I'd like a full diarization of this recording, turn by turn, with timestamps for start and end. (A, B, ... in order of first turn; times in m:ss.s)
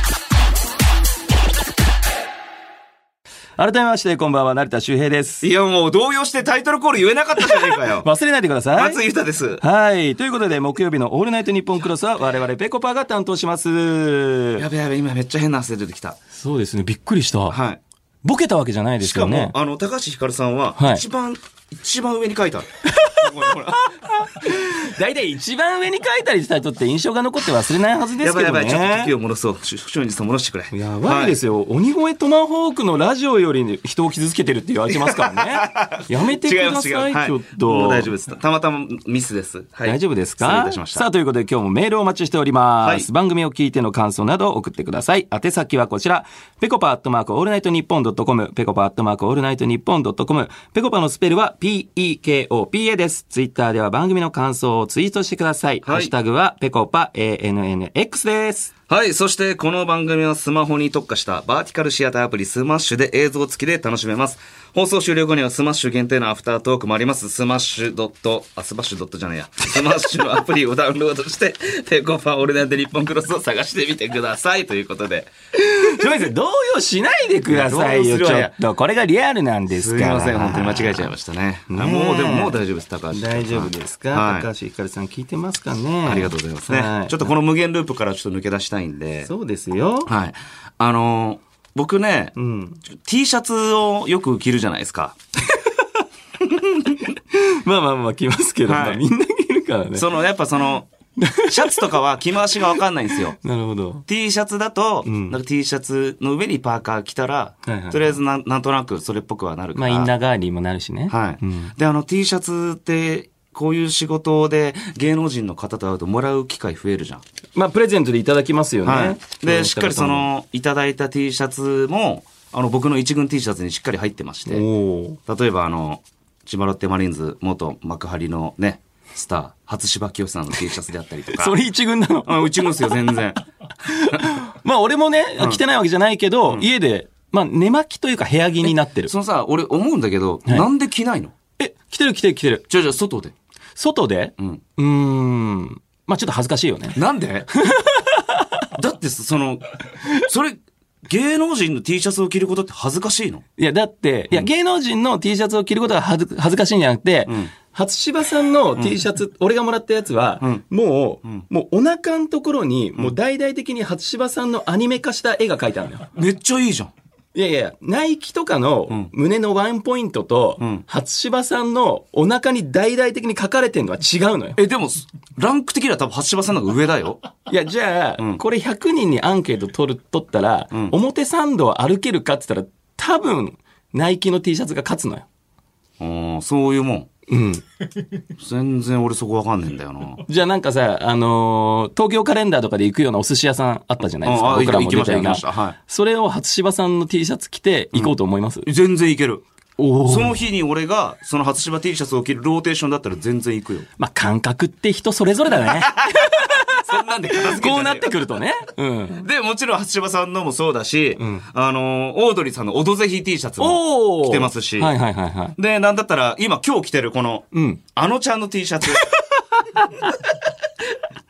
0:03.6-0:05.4 A
0:05.4-0:08.1 B
0:07.4-0:09.0 A
0:08.7-0:09.6 B
0:09.6-0:14.6 A
0:14.6-0:16.2 B
0:16.3-0:17.6 A
0:17.5-0:17.8 B
0:18.2-0:19.5 A
0:19.0-0:23.8 B
0:20.8-0:21.0 A
0:22.9-0:29.1 A
0:28.2-0:31.4 B
0:30.7-0:38.1 A
0:34.9-0:41.0 B
0:39.8-0:58.7 A
0:55.8-0:56.1 B
0:58.9-1:15.3 B
1:15.6-1:21.1 A
1:17.5-1:18.5 B
1:19.7-1:24.5 B
1:21.7-1:22.6 A
1:23.1-1:27.3 A
1:26.0-1:29.3 B
1:29.2-1:30.1 A
1:30.0-1:32.3 B
1:32.4-1:32.8 A
1:32.9-1:35.2 B
1:35.6-1:35.8 A
1:36.4-1:36.9 B
1:37.0-1:40.1 A
1:38.7-1:39.0 B
1:39.9-1:40.9 B
1:41.2-1:41.7 A
1:41.5-1:43.4 B
1:42.7-1:44.0 A
1:44.0-1:50.1 B
1:45.0-1:45.4 A
1:47.6-1:48.2 A
1:49.7-1:51.7 A
1:51.1-1:57.2 B
1:57.6-2:00.3 A
1:58.8-2:04.6 B
2:04.5-2:05.2 A
2:05.2-2:11.6 B
2:11.3-2:13.2 A
2:12.2-2:13.4 B
2:13.8-2:19.1 A
2:18.6-2:21.3 B
2:21.6-2:22.7 A
2:22.7-2:23.3 B
2:23.8-2:27.0 A
2:26.9-2:27.5 B
2:27.5-2:28.6 A
2:28.7-2:33.4 B
2:33.6-2:46.1 A
2:37.3-2:37.5 B
2:46.1-2:46.9 B
2:47.3-2:54.6 A
2:50.6-2:50.8 B
2:54.6-2:57.2 B
2:57.5-3:05.2 A
3:06.0-3:07.1 B
3:07.3-3:07.6 A
3:08.4-3:10.2 B
3:10.2-3:18.7 A
3:14.2-3:15.8 B
3:17.9-3:19.4 B
3:19.8-3:20.4 A
3:20.0-3:23.9 B
3:24.0-3:29.2 A
3:25.6-3:28.2 B
3:29.2-3:34.9 B
3:31.2-3:31.4 A
3:33.6-3:35.6 A
3:35.6-3:39.0 B
3:37.5-3:37.8 A
3:39.2-3:40.4 A